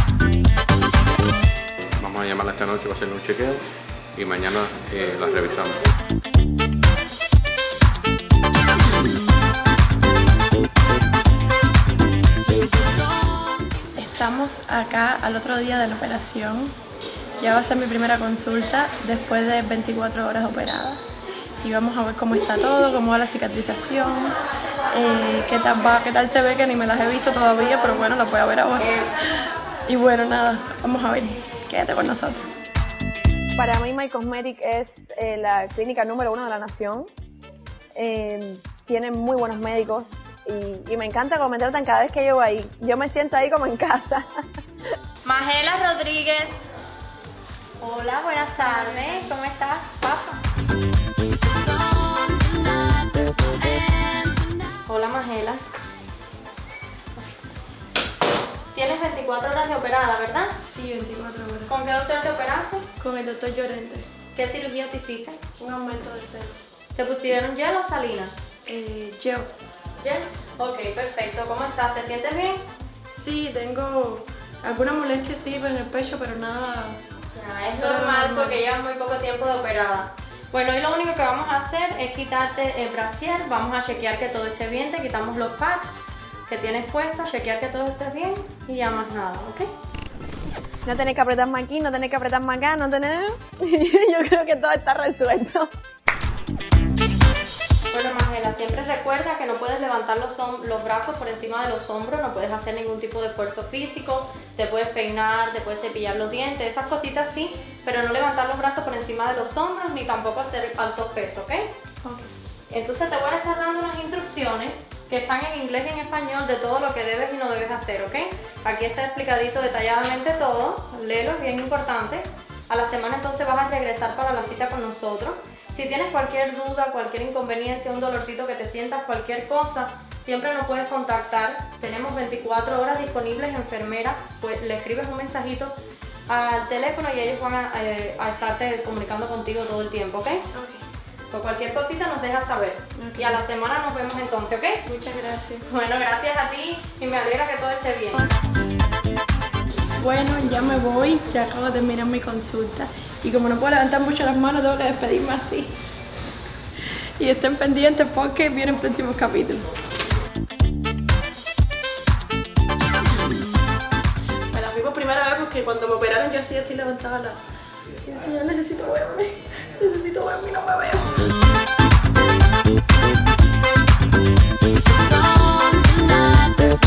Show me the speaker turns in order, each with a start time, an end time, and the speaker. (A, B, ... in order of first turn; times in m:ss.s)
0:02.0-0:05.8 A
0:14.0-0:16.8 B
0:17.4-0:21.0 B
0:21.6-0:24.4 B
0:24.9-0:29.1 B
0:29.9-0:32.4 B
0:33.6-0:37.1 C
0:38.0-0:44.3 C
0:45.2-0:46.6 D
0:47.8-0:50.4 D
0:54.8-0:55.6 D
0:58.7-1:00.5 D
1:00.6-1:01.7 B
1:01.7-1:02.8 D
1:03.0-1:04.1 B
1:04.3-1:05.4 D
1:05.6-1:06.6 B
1:06.9-1:08.3 D
1:08.7-1:09.5 B
1:10.0-1:12.6 D
1:13.1-1:17.0 B
1:17.3-1:25.9 D
1:17.8-1:18.6 B
1:26.5-1:29.7 D
1:30.8-1:35.7 C
1:37.9-1:51.7 D
1:52.7-2:15.8 D
2:16.3-2:20.4 D
2:20.5-2:20.8 B
2:21.3-2:24.8 D
2:23.0-2:23.4 B
2:24.8-2:25.7 B
2:25.7-2:28.3 D
2:30.0-2:35.7 B
2:37.2-2:39.7 B
2:44.5-2:47.4 B
2:48.0-2:51.3 B